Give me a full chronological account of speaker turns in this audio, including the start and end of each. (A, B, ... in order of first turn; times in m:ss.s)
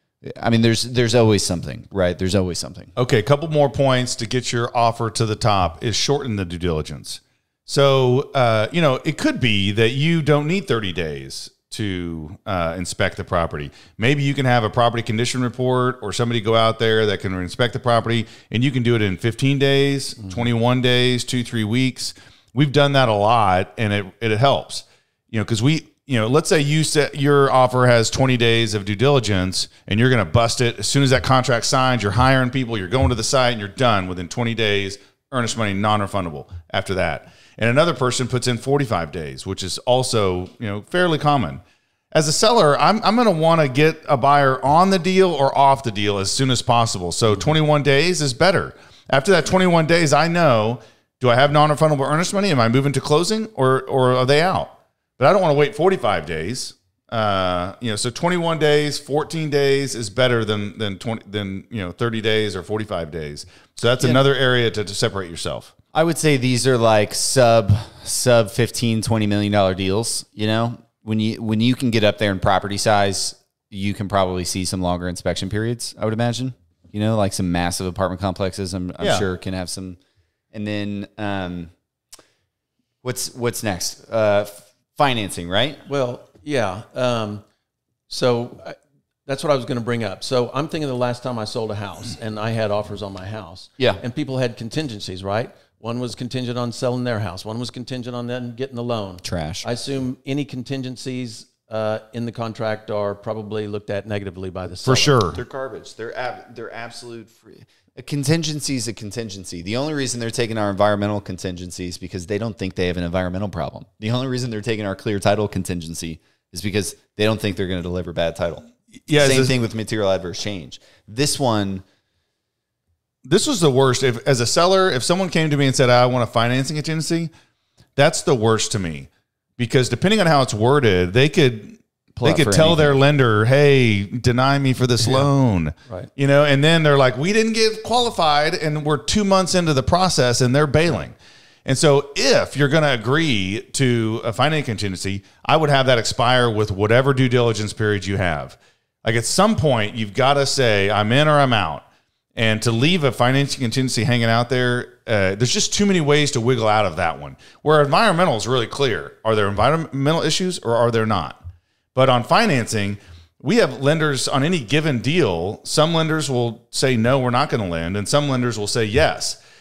0:00.2-0:02.9 A
0:03.0-1:05.7 B
1:05.9-1:20.0 A
1:19.0-1:19.3 B
1:20.5-1:21.7 A
1:23.0-1:25.8 A
1:25.9-1:27.4 C
1:28.1-1:45.2 C
1:39.2-1:39.6 A
1:44.8-1:45.4 B
1:45.3-2:01.8 A
1:59.1-1:59.5 B
2:03.2-2:07.3 B
2:08.0-2:21.1 B
2:12.2-2:13.0 A
2:21.6-2:31.8 B
2:32.4-2:41.4 B
2:42.0-2:49.4 B